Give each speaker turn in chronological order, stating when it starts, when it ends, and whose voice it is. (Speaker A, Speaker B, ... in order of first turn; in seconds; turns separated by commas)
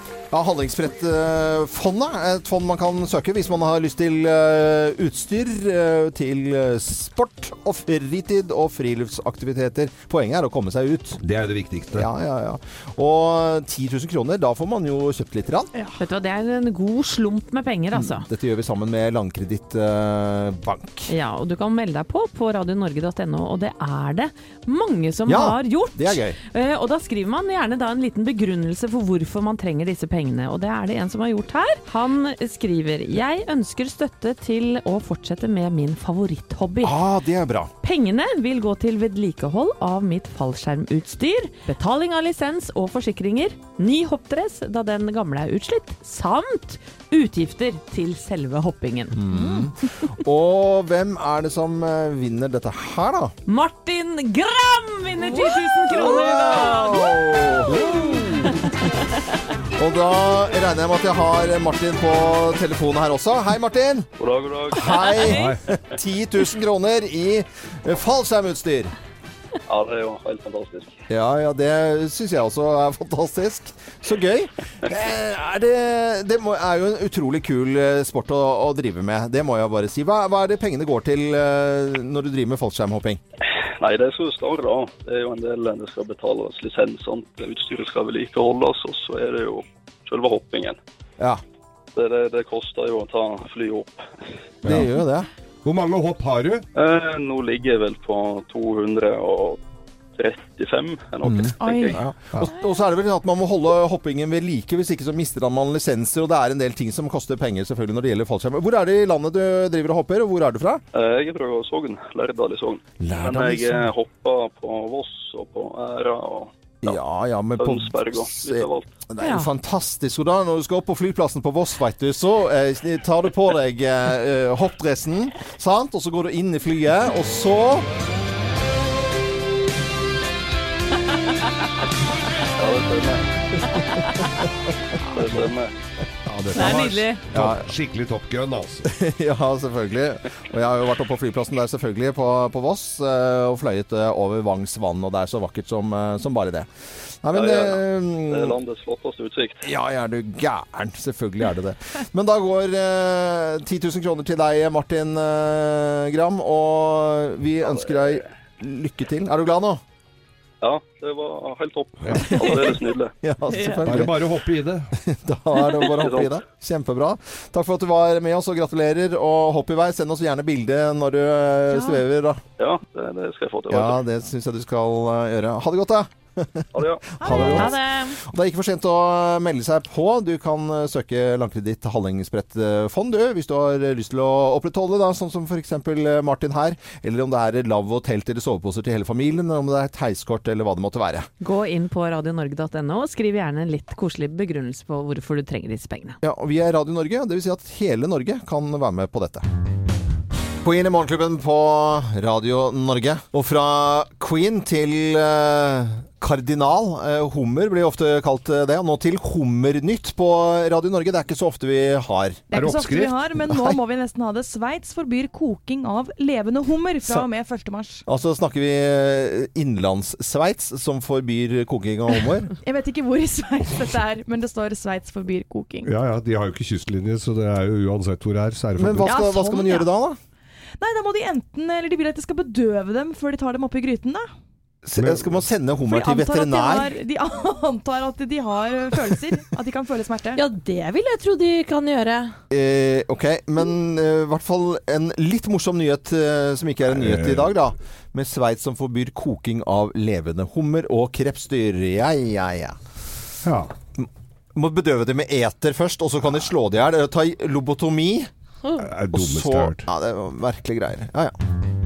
Speaker A: 0.3-11.2, Speaker B: 11.2-12.1, Speaker A: 11.9-15.7, Speaker C: 16.0-18.3, Speaker A: 17.9-21.1, Speaker C: 21.1-37.0, Speaker A: 25.2-26.4, Speaker A: 36.8-37.7, Speaker C: 37.8-49.2, Speaker A: 49.1-53.3, Speaker C: 53.5-58.5, Speaker D: 55.2-56.6, Speaker A: 56.0-58.5, Speaker B: 57.7-58.5, Speaker A: 59.8-64.1, Speaker E: 64.2-65.1, Speaker A: 64.7-68.9, Speaker C: 65.0-65.5, Speaker B: 65.3-65.6, Speaker E: 69.7-71.0, Speaker A: 71.1-83.2, Speaker E: 83.8-90.8, Speaker E: 91.9-94.1, Speaker A: 94.6-95.3, Speaker B: 95.6-96.7, Speaker E: 96.7-99.6, Speaker E: 100.2-102.0, Speaker A: 101.2-110.8, Speaker F: 101.6-102.0, Speaker E: 110.9-117.0, Speaker A: 113.0-113.9, Speaker A: 116.8-127.9, Speaker E: 117.6-118.9, Speaker C: 119.2-119.5, Speaker E: 132.6-133.6, Speaker C: 133.9-134.2, Speaker E: 135.1-135.7, Speaker A: 135.2-135.4, Speaker B: 136.2-138.9, Speaker C: 136.5-137.3, Speaker A: 137.3-137.7, Speaker A: 138.8-148.6, Speaker E: 147.3-149.7, Speaker A: 149.6-159.8, Speaker E: 157.8-158.2, Speaker E: 160.6-163.1, Speaker B: 162.0-162.2, Speaker A: 162.2-164.2, Speaker C: 162.4-162.7, Speaker C: 163.5-163.9, Speaker B: 163.8-164.9, Speaker A: 164.9-172.4, Speaker E: 165.9-166.4, Speaker E: 172.6-174.0, Speaker A: 173.7-191.3, Speaker E: 176.7-177.1, Speaker C: 177.2-178.2, Speaker F: 177.2-177.7, Speaker C: 191.4-196.2, Speaker A: 196.2-199.5, Speaker A: 200.6-212.4, Speaker F: 212.5-218.0, Speaker B: 212.5-213.2, Speaker A: 213.4-213.8, Speaker A: 218.1-222.5, Speaker F: 222.6-225.9, Speaker B: 225.8-229.1, Speaker A: 228.8-230.2, Speaker F: 229.1-229.9, Speaker F: 230.8-234.3, Speaker A: 234.8-237.0, Speaker B: 234.9-235.4, Speaker F: 235.9-240.4, Speaker D: 240.3-242.3, Speaker A: 242.5-252.8, Speaker B: 246.9-247.5, Speaker B: 253.4-253.7, Speaker A: 253.9-258.3, Speaker B: 258.8-259.8, Speaker A: 259.1-261.4